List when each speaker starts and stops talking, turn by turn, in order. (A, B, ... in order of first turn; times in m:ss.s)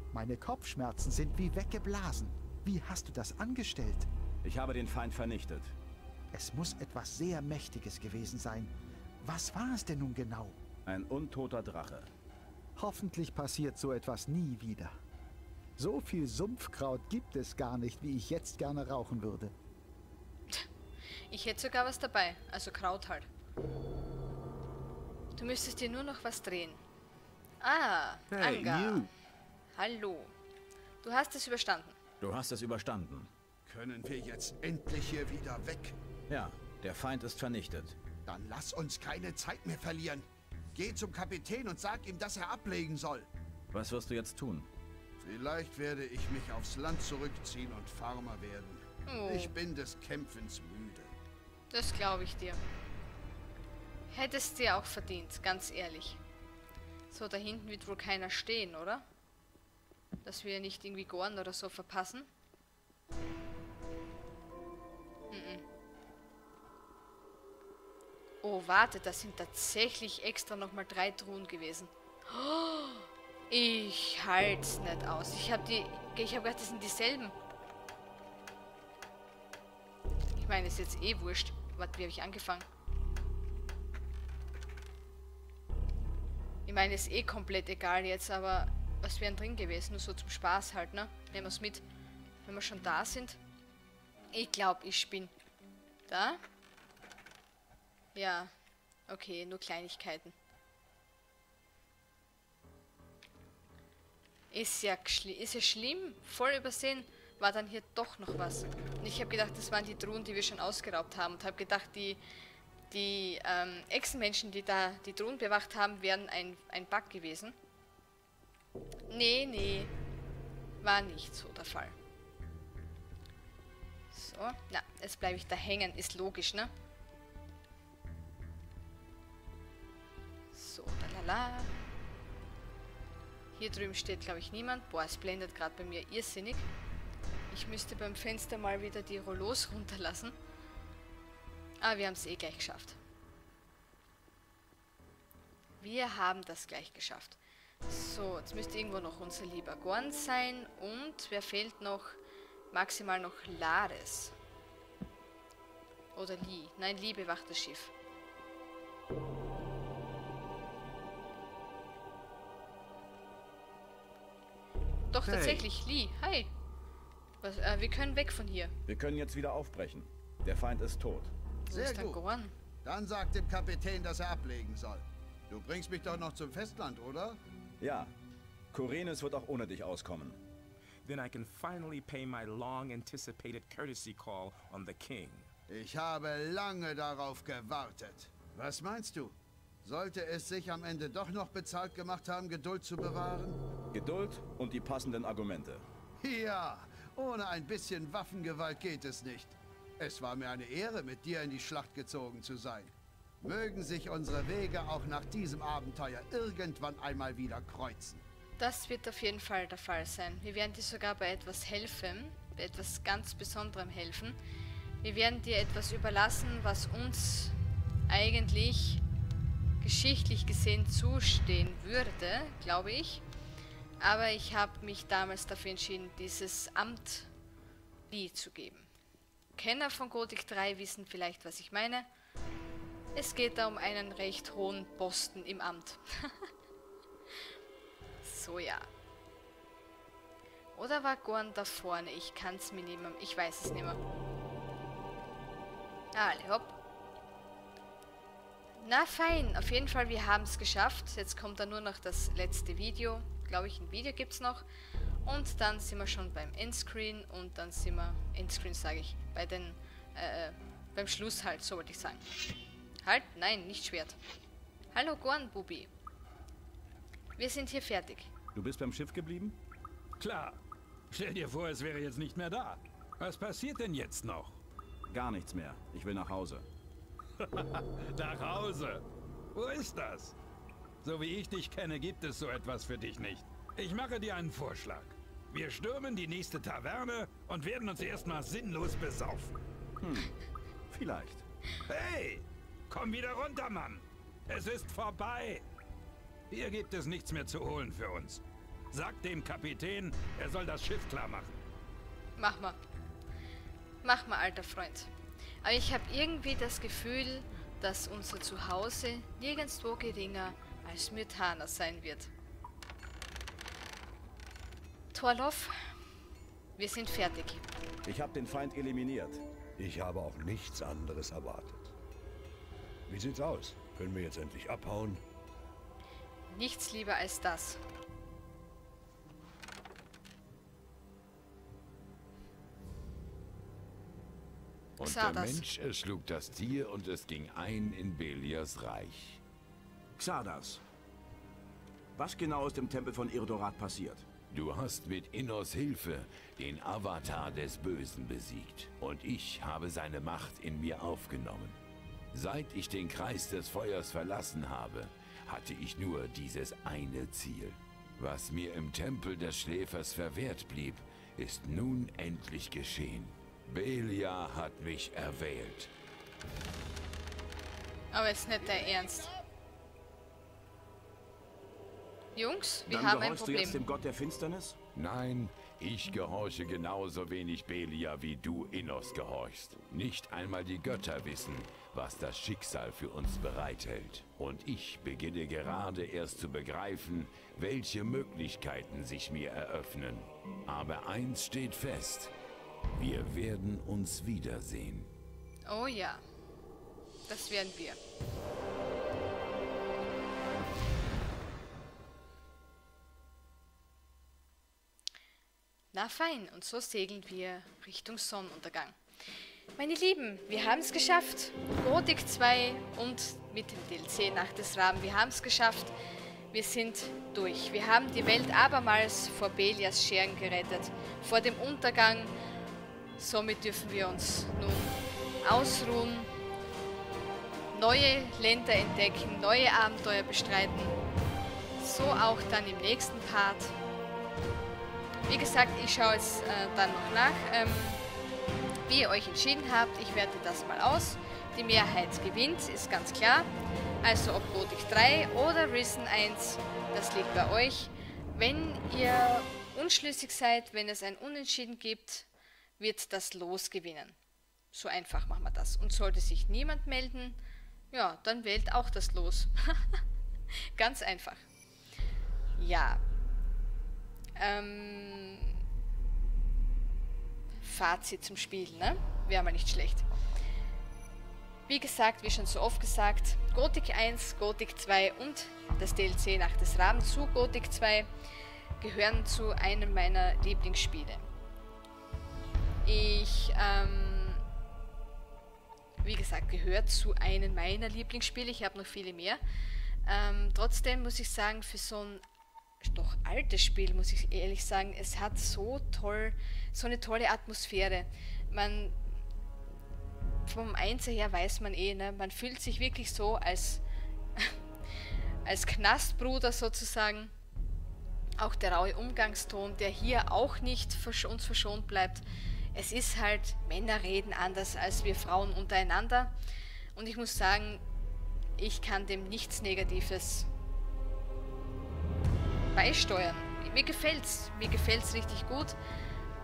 0:00.1-0:04.1 A
0:04.4-0:05.7 B
0:06.3-0:10.6 A
0:10.8-0:12.1 B
0:12.8-0:14.9 A
0:15.8-0:19.5 A
0:21.3-0:23.3 C
0:25.4-0:26.8 C
0:27.6-0:29.1 C
0:29.8-0:30.3 C
0:31.0-0:32.0 C
0:32.2-0:33.3 B
0:33.6-0:35.9 D
0:36.3-0:38.0 B
0:38.2-0:43.3 D
0:43.7-0:44.7 B
0:45.2-0:51.1 D
0:49.0-0:49.5 C
0:51.7-0:52.6 C
0:54.1-0:56.2 C
0:57.1-0:59.0 C
1:00.2-1:02.3 C
1:05.3-1:05.6 C
1:08.4-1:17.4 C
1:20.3-1:22.6 C
1:26.6-1:31.8 C
1:32.4-1:33.4 C
1:34.3-1:35.3 C
1:36.1-1:36.4 C
1:38.1-1:38.5 C
1:39.1-1:40.3 C
1:44.5-1:52.2 C
1:52.9-1:57.6 C
1:59.1-1:59.9 C
2:00.8-2:01.9 C
2:04.1-2:06.7 C
2:10.5-2:11.9 C
2:13.5-2:16.7 C
2:17.5-2:20.4 C
2:21.8-2:23.0 C
2:25.8-2:32.2 C
2:32.7-2:34.3 C
2:36.1-2:37.9 C
2:45.1-2:46.5 C
2:47.4-2:48.7 C
2:48.9-2:51.3 B
2:51.7-2:52.5 C
2:51.7-2:52.2 D
2:52.8-2:57.4 D
2:57.8-2:58.1 B
2:58.7-3:00.4 B
3:01.0-3:05.5 E
3:05.7-3:13.6 D
3:13.9-3:15.8 B
3:16.2-3:28.2 D
3:28.6-3:34.4 C
3:35.0-3:37.5 C
3:38.1-3:39.0 C
3:39.8-3:43.2 C
3:44.0-3:47.3 C
3:48.1-3:48.9 C
3:49.6-3:52.1 C
3:53.1-3:56.5 C
3:58.2-3:58.9 C
4:00.7-4:04.0 C
4:06.1-4:06.8 C
4:08.8-4:14.6 C
4:15.2-4:22.2 C
4:23.0-4:24.2 C
4:24.9-4:25.9 C
4:27.4-4:28.3 C
4:28.5-4:29.6 B
4:30.2-4:34.6 F
4:35.1-4:36.6 B
4:37.4-4:40.4 F
4:41.0-4:49.5 F
4:50.0-4:50.3 B
4:50.9-4:51.4 B
4:51.9-4:55.6 F
4:56.5-5:01.6 F
5:02.4-5:02.8 C
5:04.0-5:05.1 C
5:05.6-5:12.3 C
5:15.1-5:15.8 C
5:16.8-5:17.6 C
5:18.0-5:19.4 B
5:19.8-5:21.9 G
5:23.1-5:25.2 G
5:26.5-5:27.8 C
5:35.0-5:39.4 H
5:35.0-5:35.6 C
5:40.2-5:40.8 B
5:42.2-5:44.3 B
5:44.5-5:51.8 H
5:52.3-6:05.9 H
6:08.1-6:09.3 C
6:12.3-6:13.8 C
6:12.9-6:14.8 B
6:14.9-6:32.3 H
6:32.9-6:35.1 H
6:35.7-6:36.2 C
6:37.3-6:38.0 C
6:45.9-6:49.0 C
6:49.8-6:55.9 C
6:56.5-7:02.3 C
7:03.2-7:06.3 C
7:07.7-7:11.0 C
7:11.8-7:13.8 C
7:15.3-7:18.0 C
7:18.9-7:23.5 C
7:24.0-7:32.3 C
7:32.8-7:34.2 C
7:34.7-7:37.4 C
7:37.9-7:40.0 C
7:40.8-7:41.4 C
7:42.6-7:43.0 C
7:44.4-7:45.6 C
7:47.6-7:50.0 C
7:51.7-7:58.1 C
7:58.8-8:01.3 C
8:02.8-8:04.4 C
8:06.0-8:09.4 C
8:10.0-8:12.2 C
8:12.8-8:19.0 C
8:20.4-8:23.8 C
8:25.4-8:27.3 C
8:28.4-8:36.3 C
8:36.9-8:37.8 C
8:38.6-8:40.5 C
8:42.7-8:45.8 C